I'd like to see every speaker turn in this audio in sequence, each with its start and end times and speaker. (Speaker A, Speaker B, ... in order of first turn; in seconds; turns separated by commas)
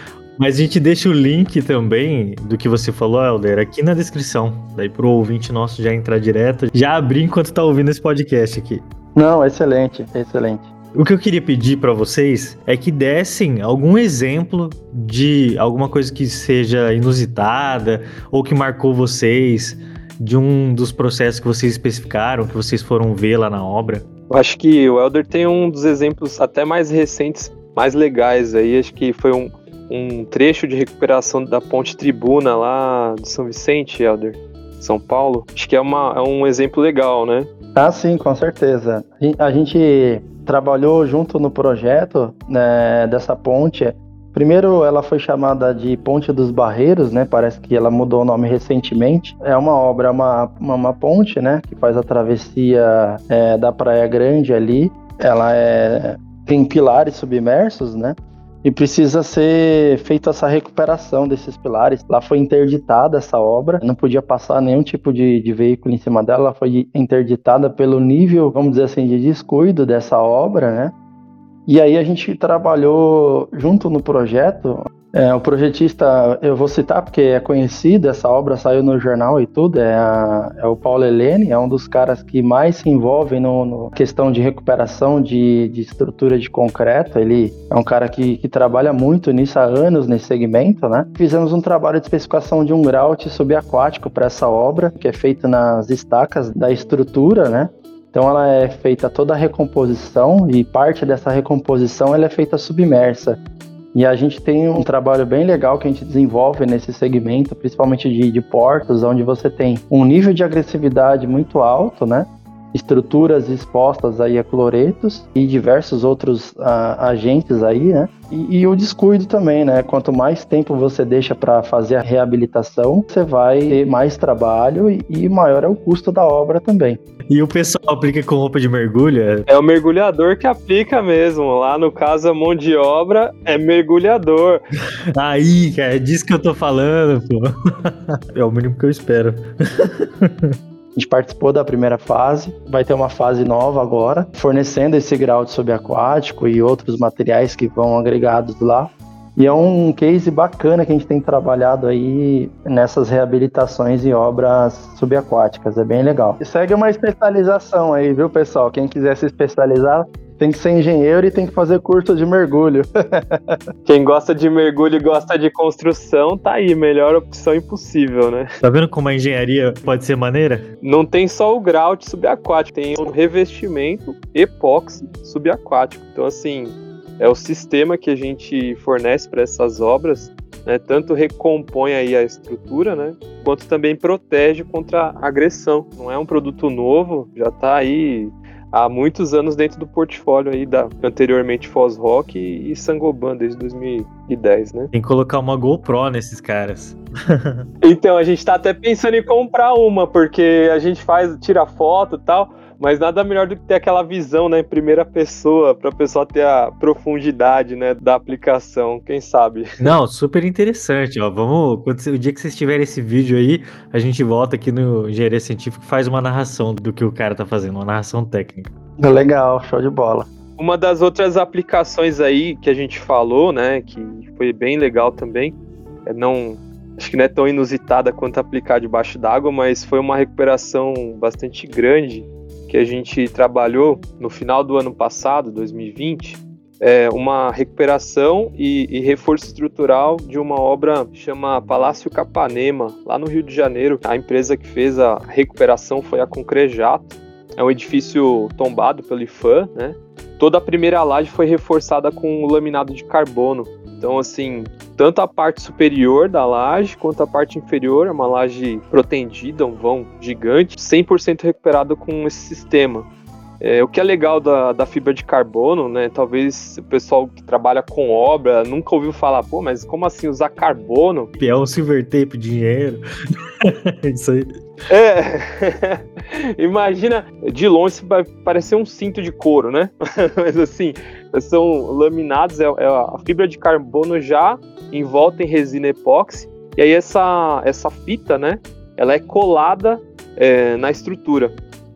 Speaker A: 0.4-8.8, Speaker B: 9.1-10.7, Speaker A: 10.9-24.1, Speaker C: 24.3-37.5, Speaker B: 37.7-70.9, Speaker B: 71.7-103.4, Speaker B: 103.9-127.0, Speaker A: 127.3-129.4, Speaker C: 129.5-134.6, Speaker A: 135.1-140.5, Speaker B: 140.9-163.6, Speaker C: 163.8-168.5, Speaker A: 168.6-170.6, Speaker C: 170.8-194.9, Speaker A: 194.9-197.7, Speaker C: 197.8-209.8, Speaker A: 209.8-218.7, Speaker B: 219.0-220.3, Speaker C: 220.6-225.5, Speaker C: 226.1-263.1, Speaker C: 263.6-271.3, Speaker A: 271.4-273.0, Speaker A: 273.6-274.5, Speaker C: 274.9-276.0, Speaker C: 276.6-291.6